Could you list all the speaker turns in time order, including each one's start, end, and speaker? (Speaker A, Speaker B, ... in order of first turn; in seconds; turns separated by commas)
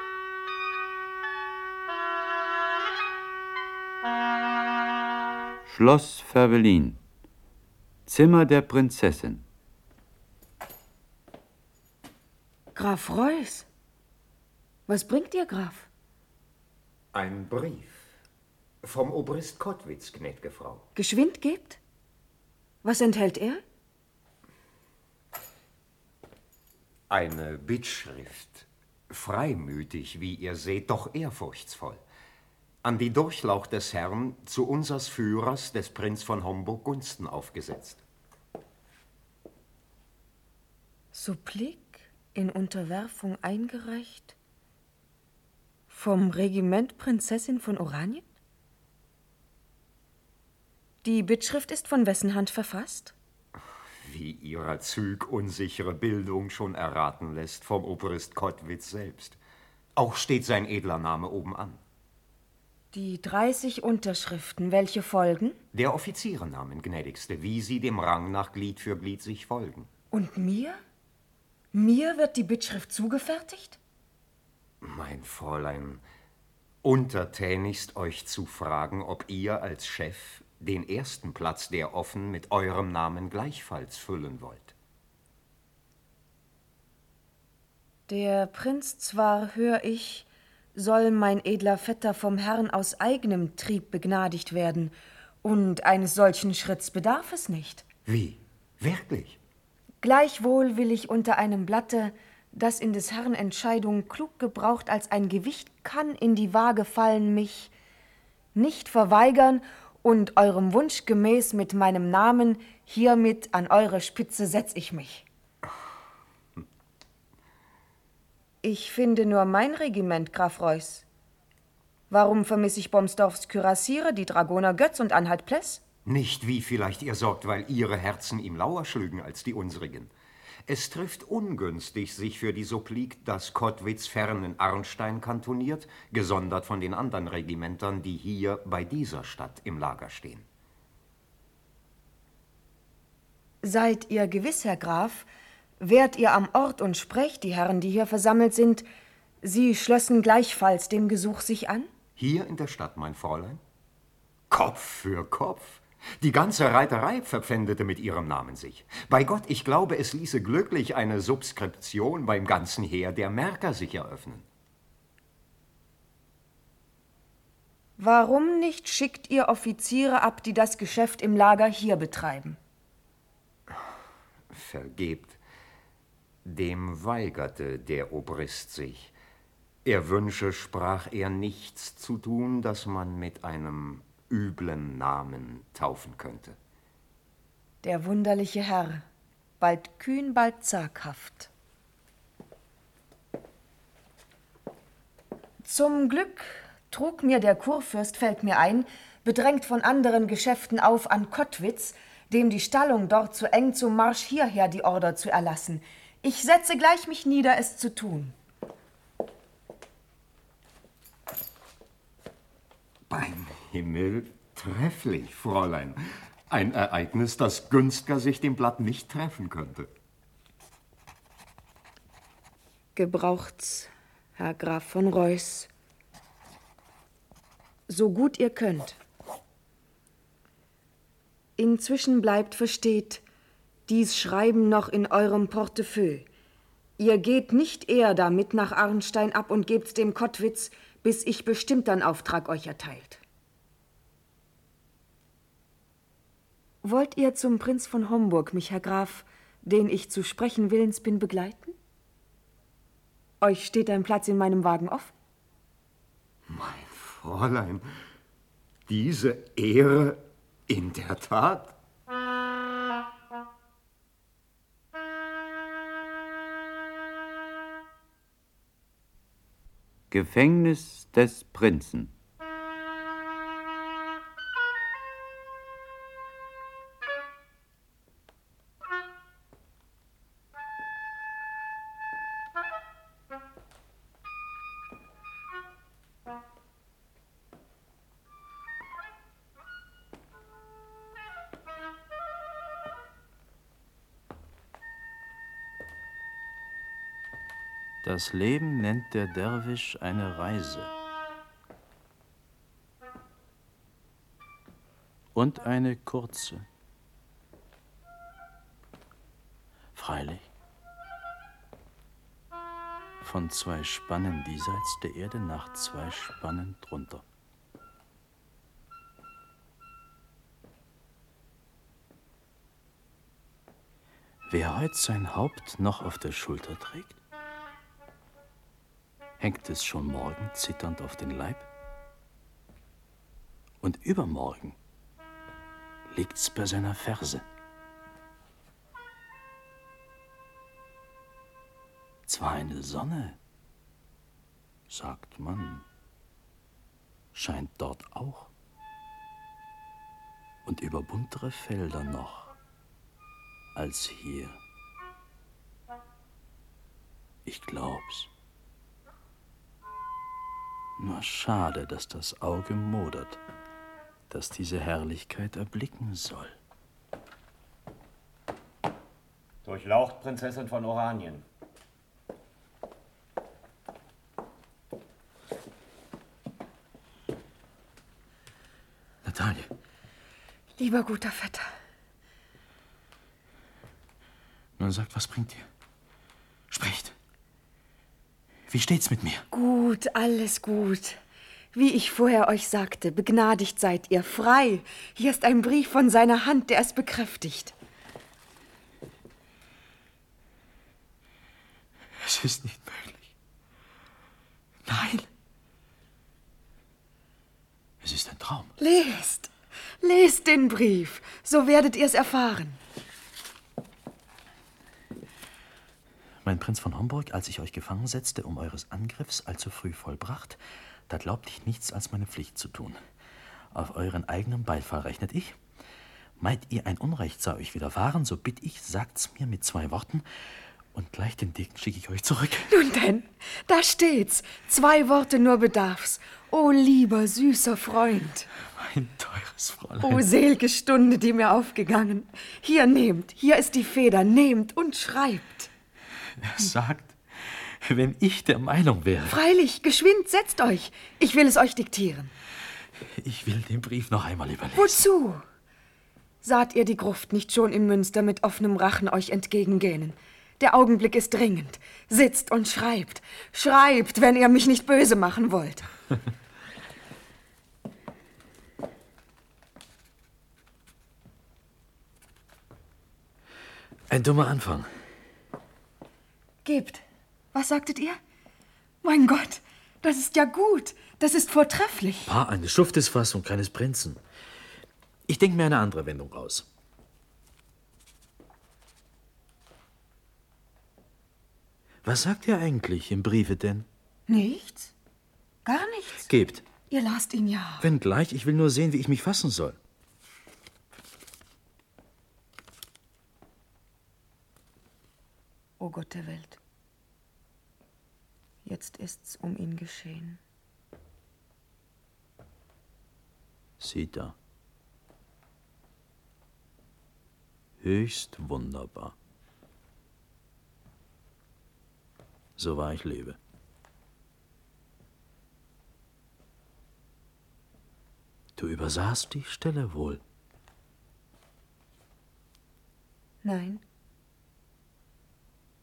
Speaker A: 5.7-7.0, Speaker A: 8.1-9.4, Speaker B: 12.7-13.7, Speaker B: 14.9-15.9, Speaker C: 17.1-18.1, Speaker C: 18.8-20.8, Speaker B: 20.9-21.8, Speaker B: 22.8-23.6, Speaker C: 27.1-32.0, Speaker C: 32.8-38.0, Speaker B: 41.1-44.3, Speaker B: 45.9-48.2, Speaker B: 51.0-53.1, Speaker C: 54.0-59.4, Speaker C: 60.0-61.8, Speaker B: 62.9-65.6, Speaker C: 65.7-69.9, Speaker B: 70.1-70.8, Speaker B: 71.7-73.8, Speaker C: 74.8-76.0, Speaker C: 76.8-84.7, Speaker B: 88.1-97.8, Speaker C: 98.0-99.4, Speaker B: 100.0-107.7, Speaker B: 108.5-115.2, Speaker B: 118.6-121.0, Speaker B: 122.1-125.8, Speaker C: 126.0-130.1, Speaker C: 130.7-140.4, Speaker B: 143.6-145.3, Speaker B: 145.8-148.8, Speaker B: 149.4-151.9, Speaker C: 152.2-153.6, Speaker C: 154.5-164.4, Speaker B: 168.0-172.6, Speaker C: 174.5-175.4, Speaker C: 176.4-179.1, Speaker C: 179.8-186.6, Speaker B: 187.8-189.0, Speaker B: 189.6-191.5, Speaker B: 195.7-208.3, Speaker C: 213.1-219.9, Speaker B: 222.9-225.7, Speaker B: 227.9-229.0, Speaker B: 231.6-233.2, Speaker B: 233.9-236.3, Speaker B: 237.0-243.2, Speaker B: 246.8-251.7, Speaker B: 253.4-255.1, Speaker C: 256.5-257.8, Speaker C: 258.9-261.7, Speaker A: 270.1-272.1, Speaker D: 298.0-300.9, Speaker D: 305.3-306.6, Speaker D: 309.9-310.5, Speaker D: 313.2-317.2, Speaker D: 324.5-327.2, Speaker D: 329.4-331.6, Speaker D: 333.8-334.8, Speaker D: 336.1-337.4, Speaker D: 342.3-343.4, Speaker D: 344.9-345.8, Speaker D: 347.3-348.5, Speaker D: 350.6-352.5, Speaker D: 353.7-354.6, Speaker D: 357.4-358.3, Speaker D: 361.0-363.4, Speaker D: 364.3-366.6, Speaker D: 379.2-379.7, Speaker B: 380.8-381.6, Speaker D: 384.8-385.7, Speaker D: 386.7-387.1, Speaker D: 388.7-389.4, Speaker B: 389.5-391.2, Speaker B: 391.7-397.7, Speaker D: 402.2-403.2, Speaker B: 404.9-405.2, Speaker D: 408.0-408.7, Speaker B: 408.8-409.5, Speaker B: 410.0-412.8, Speaker D: 416.4-423.0, Speaker D: 423.7-425.6, Speaker D: 426.4-430.2, Speaker D: 430.9-432.7, Speaker B: 432.7-438.5, Speaker D: 438.8-440.2, Speaker B: 440.0-445.7, Speaker D: 446.4-449.4, Speaker B: 449.3-452.3, Speaker D: 453.1-455.0, Speaker B: 454.8-455.4, Speaker B: 456.4-465.9, Speaker D: 474.1-474.9, Speaker B: 476.6-478.2, Speaker B: 479.0-482.3, Speaker D: 482.3-484.2, Speaker D: 485.3-486.6, Speaker D: 492.0-493.9, Speaker B: 494.3-494.9, Speaker B: 495.6-496.3, Speaker D: 496.3-496.6, Speaker B: 496.9-497.9, Speaker D: 497.8-499.8, Speaker B: 505.8-506.6, Speaker B: 508.6-510.4, Speaker D: 513.8-514.3, Speaker D: 517.8-519.1, Speaker D: 522.6-523.4, Speaker D: 528.5-530.2, Speaker B: 533.4-533.8